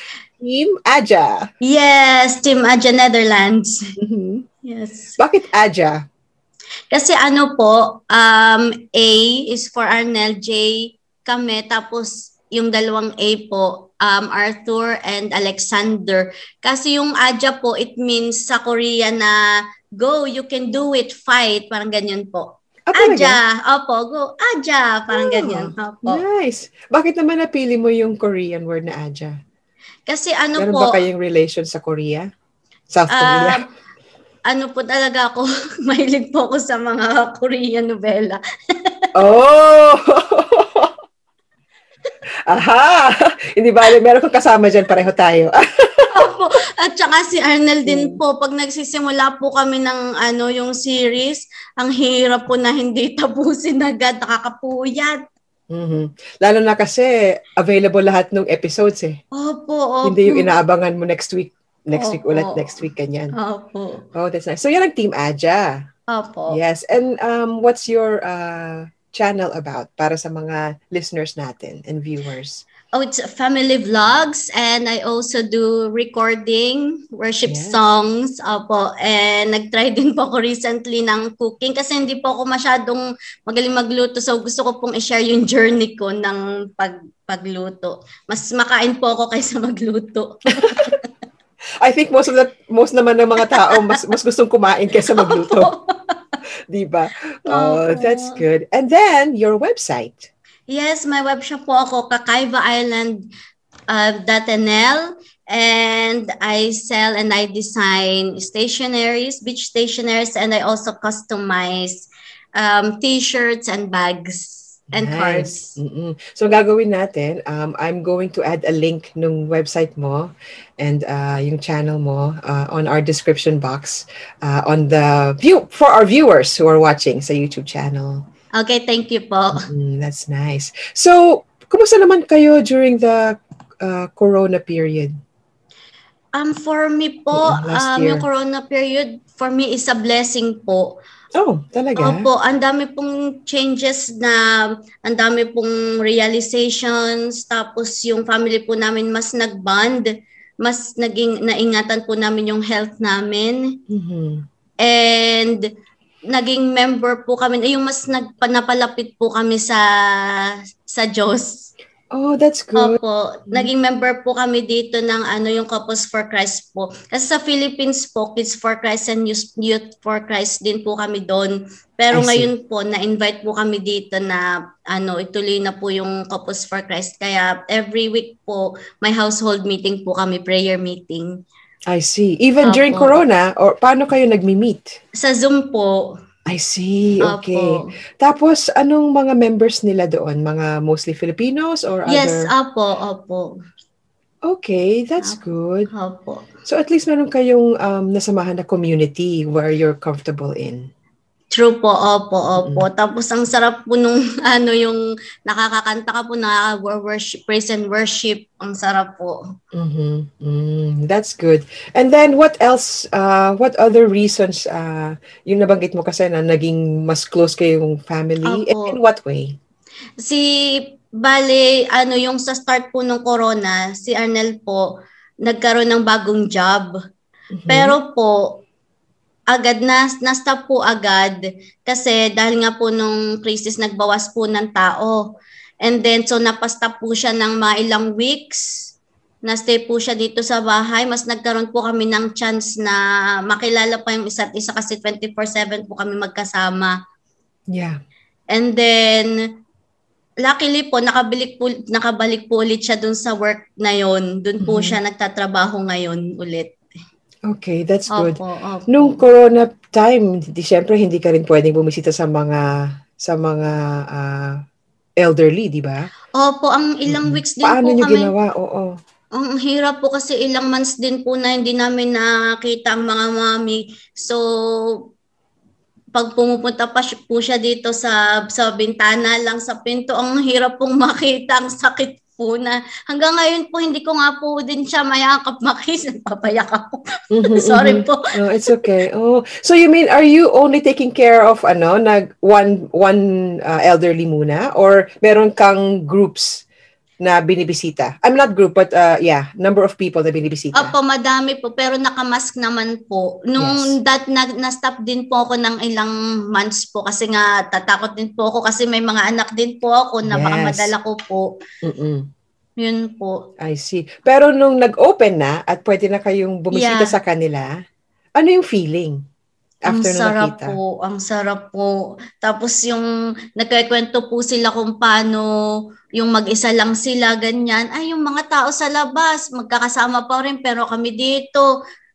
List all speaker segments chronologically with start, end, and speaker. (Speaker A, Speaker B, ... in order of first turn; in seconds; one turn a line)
Speaker A: 0.4-1.4
Speaker B: 1.6-3.8
Speaker A: 4.0-4.4
Speaker B: 4.6-5.2
Speaker A: 5.2-6.0
Speaker B: 6.9-19.4
Speaker B: 20.0-26.2
Speaker A: 22.9-23.4
Speaker A: 25.1-29.3
Speaker B: 30.1-31.0
Speaker A: 30.6-32.3
Speaker A: 32.9-33.6
Speaker B: 33.1-33.6
Speaker B: 34.5-39.1
Speaker A: 39.1-40.9
Speaker A: 42.5-46.3
Speaker B: 46.1-55.2
Speaker A: 47.9-48.2
Speaker A: 55.7-59.2
Speaker B: 59.3-60.5
Speaker A: 60.0-63.3
Speaker B: 61.9-62.8
Speaker B: 63.4-64.0
Speaker A: 64.1-65.8
Speaker B: 66.1-66.6
Speaker A: 66.5-72.6
Speaker B: 72.9-91.0
Speaker A: 77.5-77.8
Speaker A: 90.6-91.0
Speaker A: 91.8-95.7
Speaker B: 93.5-94.0
Speaker B: 95.1-96.3
Speaker A: 96.7-100.3
Speaker B: 97.5-98.4
Speaker B: 100.7-103.3
Speaker B: 103.9-115.8
Speaker A: 114.9-128.2
Speaker B: 128.6-129.7
Speaker A: 129.5-135.1
Speaker B: 136.3-140.9
Speaker A: 137.3-138.2
Speaker A: 141.3-142.3
Speaker B: 142.0-150.1
Speaker B: 150.6-153.7
Speaker A: 153.9-154.4
Speaker B: 154.8-155.6
Speaker B: 156.3-159.8
Speaker B: 160.9-161.7
Speaker A: 162.1-163.7
Speaker B: 162.8-181.4
Speaker A: 172.1-172.5
Speaker A: 181.9-184.9
Speaker B: 182.6-183.1
Speaker B: 185.2-186.1
Speaker A: 186.5-192.5
Speaker B: 187.2-187.9
Speaker B: 192.1-193.5
Speaker A: 194.4-195.9
Speaker B: 195.9-196.4
Speaker A: 196.7-200.8
Speaker B: 201.5-209.4
Speaker A: 202.6-202.8
Speaker A: 209.7-219.6
Speaker B: 218.4-219.0
Speaker B: 220.2-224.8
Speaker B: 225.4-226.9
Speaker A: 227.5-228.0
Speaker B: 227.7-228.6
Speaker B: 229.5-235.3
Speaker B: 235.8-238.9
Speaker B: 239.4-246.9
Speaker A: 247.7-248.0
Speaker B: 248.5-249.3
Speaker B: 250.4-256.7
Speaker A: 254.6-255.0
Speaker A: 257.5-262.6
Speaker B: 258.1-259.2
Speaker A: 263.2-264.6
Speaker A: 265.2-266.0
Speaker B: 266.4-268.3
Speaker A: 267.1-268.9
Speaker B: 269.4-275.0
Speaker B: 276.1-288.8
Speaker A: 287.3-296.6
Speaker A: 297.2-300.9
Speaker B: 300.7-311.5
Speaker A: 303.6-303.9
Speaker A: 310.3-310.9
Speaker A: 311.8-312.3
Speaker B: 312.8-313.4
Speaker A: 313.6-317.7
Speaker B: 316.7-317.1
Speaker A: 318.4-319.2
Speaker A: 319.9-320.8
Speaker B: 319.9-325.5
Speaker B: 326.2-331.7